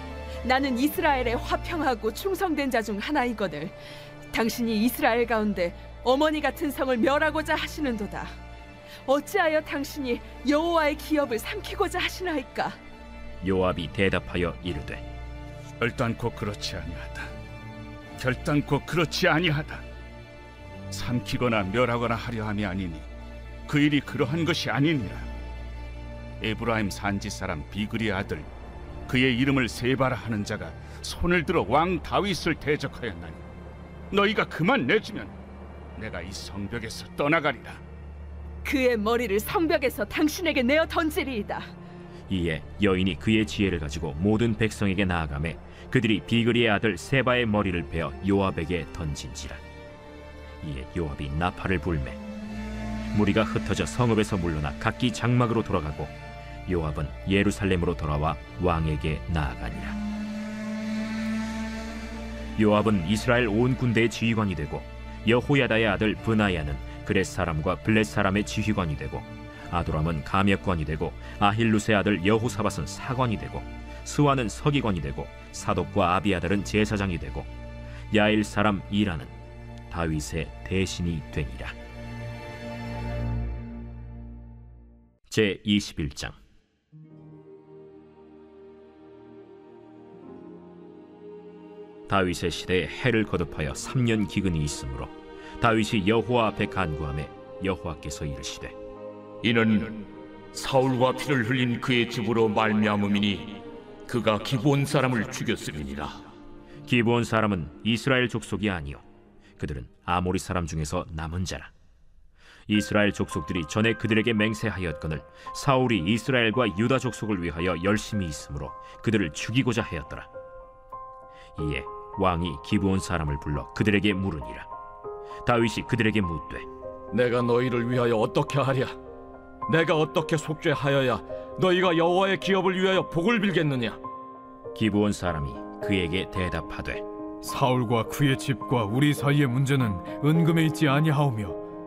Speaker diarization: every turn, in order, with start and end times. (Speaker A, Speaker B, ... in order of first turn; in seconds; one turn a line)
Speaker A: 0.4-3.8
Speaker A: 4.3-8.3
Speaker A: 9.1-12.8
Speaker B: 13.4-15.0
Speaker C: 15.8-17.3
Speaker C: 18.2-19.8
Speaker C: 20.9-23.1
Speaker C: 23.7-25.3
Speaker C: 26.4-28.5
Speaker C: 29.1-33.4
Speaker C: 34.1-35.3
Speaker C: 36.0-37.8
Speaker A: 38.6-41.7
Speaker B: 42.3-49.6
Speaker B: 50.6-52.2
Speaker B: 53.1-56.1
Speaker B: 56.7-60.0
Speaker B: 62.6-77.5
Speaker B: 78.1-79.3
Speaker B: 79.9-81.8
Speaker B: 85.3-86.4
Speaker B: 92.1-98.8
Speaker D: 99.5-99.9
Speaker D: 100.6-103.3
Speaker D: 105.0-106.1
Speaker B: 106.9-109.0
Speaker B: 109.6-111.7
Speaker B: 112.7-120.3
Speaker B: 121.6-124.7
Speaker B: 125.4-126.7
Speaker E: 127.1-128.9
Speaker E: 129.7-134.0
Speaker B: 134.8-137.1
Speaker F: 137.4-141.6